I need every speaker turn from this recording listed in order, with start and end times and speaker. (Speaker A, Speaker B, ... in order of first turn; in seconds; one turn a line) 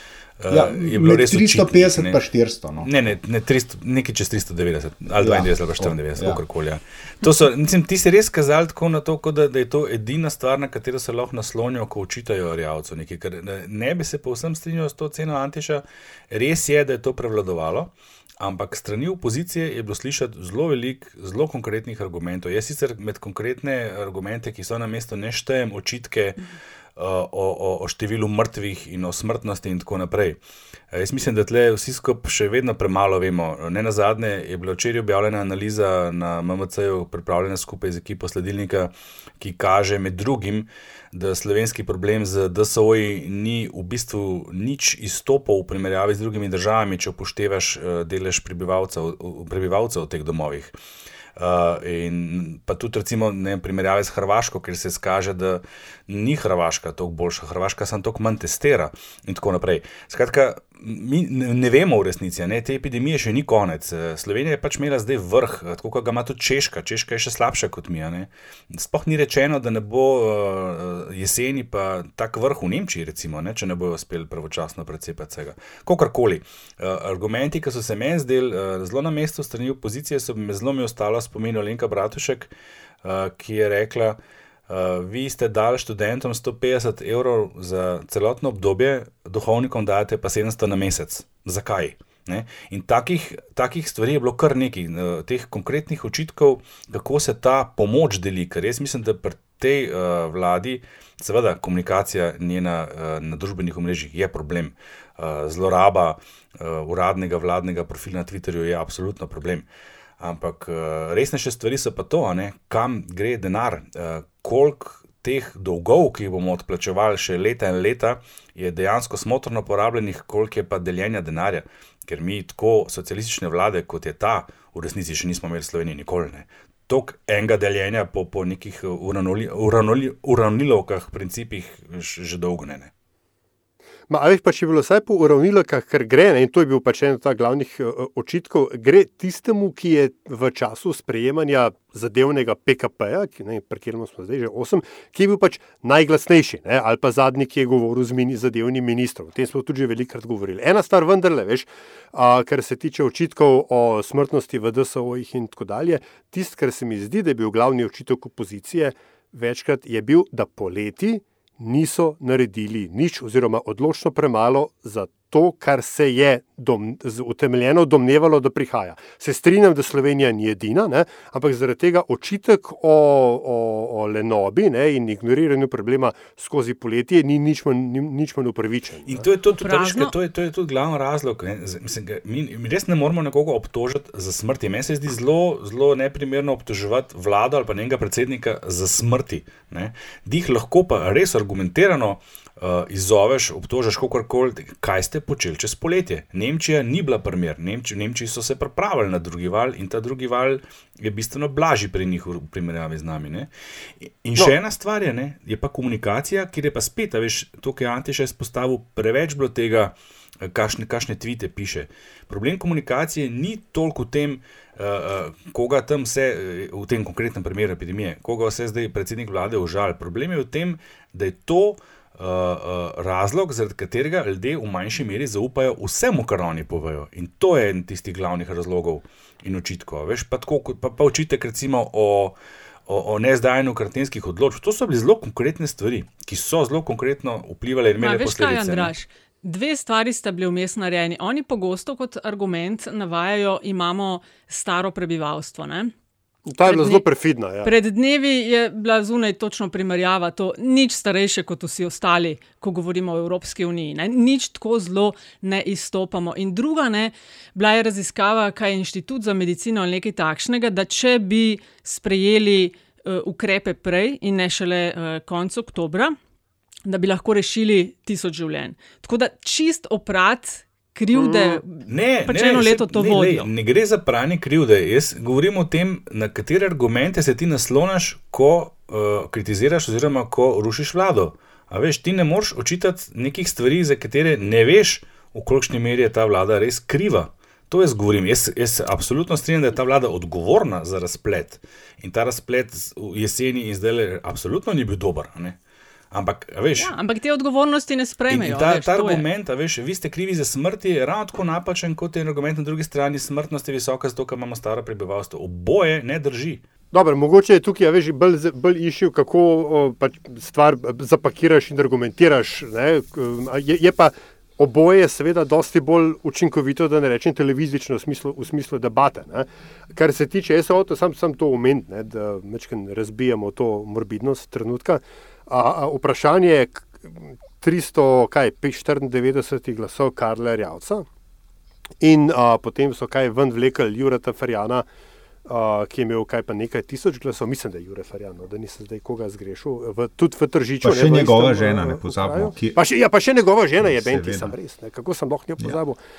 Speaker A: 0.4-2.2
Speaker B: 0.5-2.9
Speaker A: 2.8-30.4
Speaker B: 5.2-6.4
Speaker A: 30.9-50.7
Speaker A: 51.4-82.5
Speaker A: 83.0-84.2
Speaker A: 84.7-109.7
Speaker A: 110.2-132.9
Speaker C: 134.1-179.2
Speaker A: 179.1-203.5
Speaker D: 179.5-180.1
Speaker A: 204.0-232.3
Speaker A: 232.9-238.9
Speaker D: 238.0-245.9
Speaker C: 246.5-247.7
Speaker D: 246.6-247.0
Speaker D: 247.6-266.1
Speaker D: 266.9-273.5
Speaker C: 271.1-271.6
Speaker A: 271.9-295.6
Speaker A: 296.1-296.9
Speaker D: 296.8-299.2
Speaker A: 298.3-306.6
Speaker C: 306.9-331.1
Speaker C: 332.0-334.9
Speaker C: 335.4-346.0
Speaker B: 340.8-342.8
Speaker B: 343.8-344.5